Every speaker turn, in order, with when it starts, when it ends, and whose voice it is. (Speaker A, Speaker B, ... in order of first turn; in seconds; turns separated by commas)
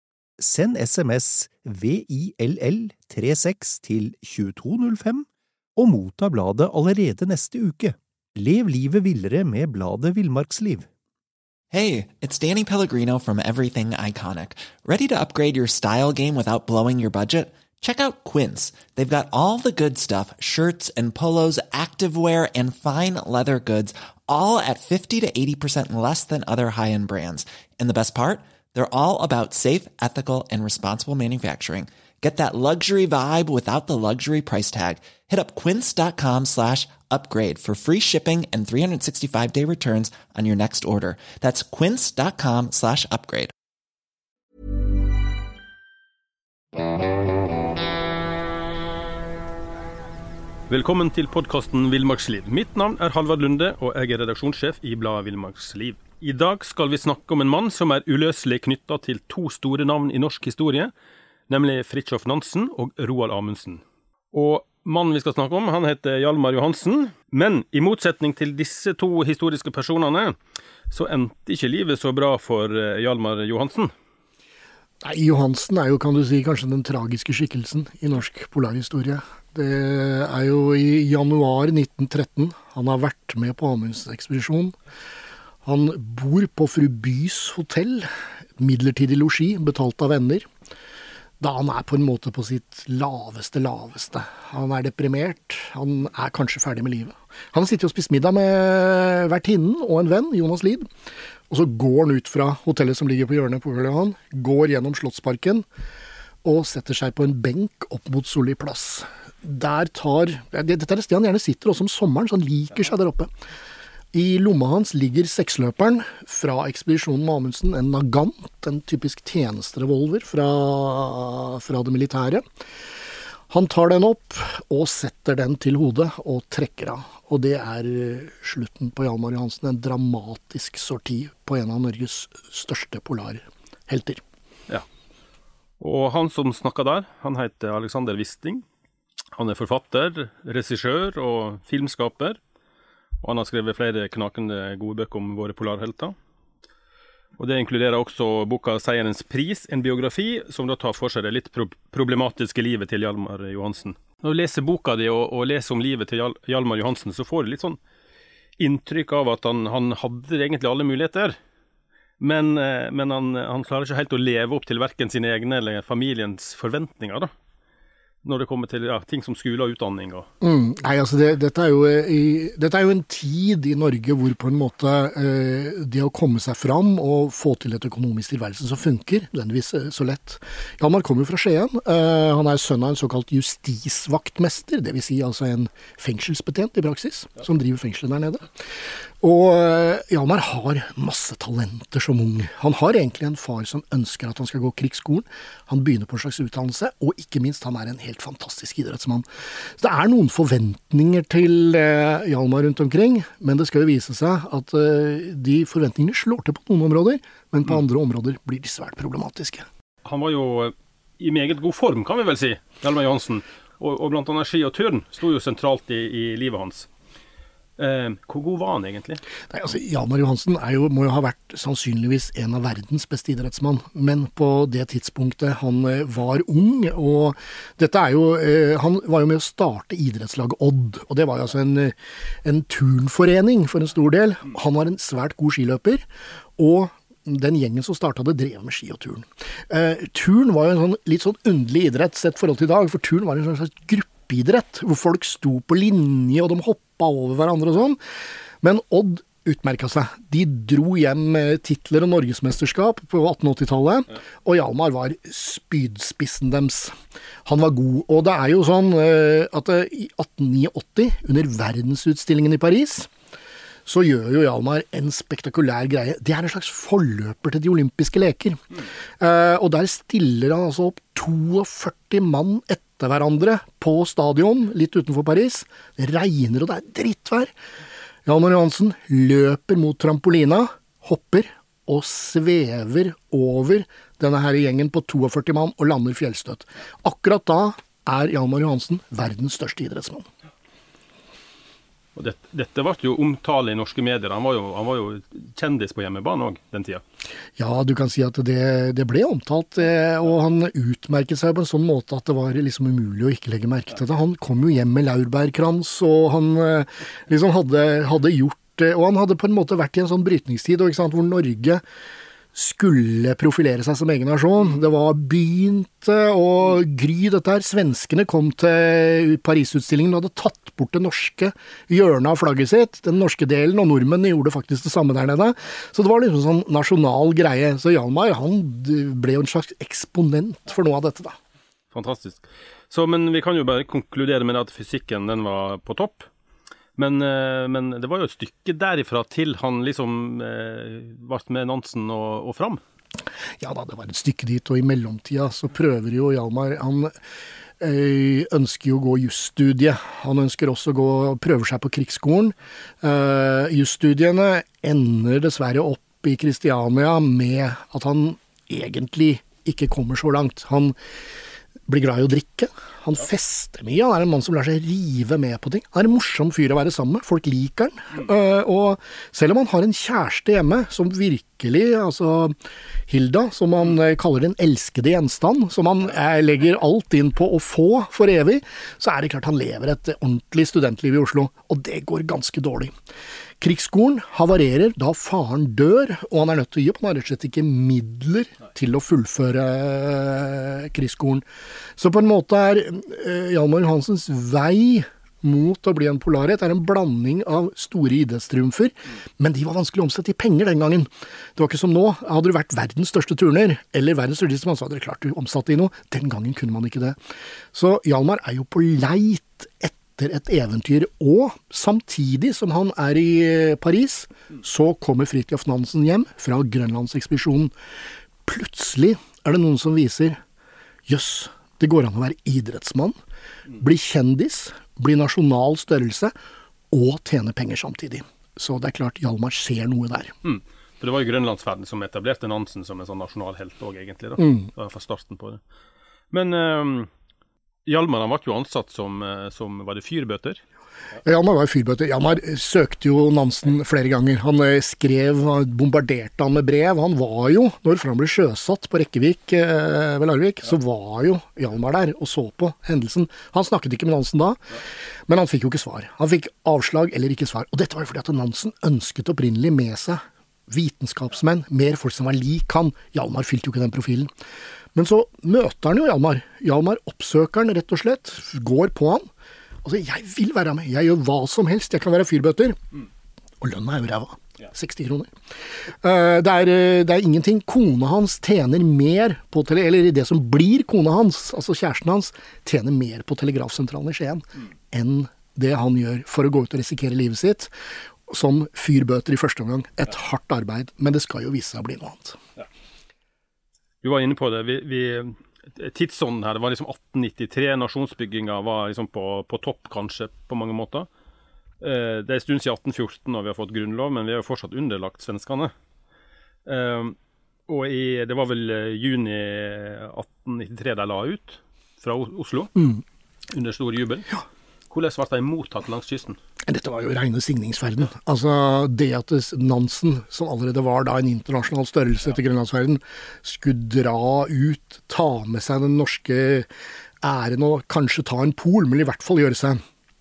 Speaker A: 0.4-10.9, Speaker B: 11.7-43.5, Speaker C: 50.7-60.9, Speaker C: 61.5-63.8, Speaker C: 64.3-70.3, Speaker C: 70.9-73.9, Speaker D: 75.0-84.8, Speaker D: 85.6-90.5, Speaker D: 91.4-100.9, Speaker D: 101.5-105.7, Speaker D: 106.4-113.3, Speaker D: 114.1-122.5, Speaker D: 123.5-134.2, Speaker C: 135.8-138.6, Speaker C: 139.3-142.4, Speaker C: 143.2-146.2, Speaker C: 147.4-157.8, Speaker C: 158.6-161.4, Speaker C: 162.2-167.3, Speaker C: 168.2-170.3, Speaker D: 170.4-188.6, Speaker D: 189.2-209.7, Speaker C: 210.0-216.9, Speaker C: 217.8-219.2, Speaker D: 219.5-248.0, Speaker D: 248.6-263.1, Speaker D: 263.9-277.5, Speaker D: 278.2-290.3, Speaker C: 292.1-297.0, Speaker D: 297.6-311.8, Speaker D: 312.5-331.4, Speaker C: 331.9-336.3, Speaker C: 337.0-342.8, Speaker D: 343.6-347.1, Speaker D: 347.8-360.9, Speaker D: 361.9-372.6, Speaker D: 373.1-382.9, Speaker D: 383.6-391.4, Speaker D: 392.0-407.2, Speaker D: 407.7-417.7, Speaker D: 418.4-420.4, Speaker D: 421.1-423.2, Speaker D: 423.7-426.3, Speaker D: 426.9-430.3, Speaker C: 430.4-435.6, Speaker D: 434.4-434.7, Speaker C: 436.3-437.1, Speaker C: 437.9-440.6, Speaker D: 441.2-464.3, Speaker D: 464.9-469.3, Speaker D: 469.8-472.8, Speaker D: 473.6-475.3, Speaker D: 476.0-487.7, Speaker D: 488.3-492.4, Speaker C: 494.0-501.1, Speaker C: 501.8-505.7, Speaker C: 506.6-507.1, Speaker C: 507.7-512.7, Speaker D: 512.8-513.0, Speaker C: 513.5-514.3, Speaker C: 514.9-516.4, Speaker D: 516.6-526.7, Speaker D: 527.2-529.8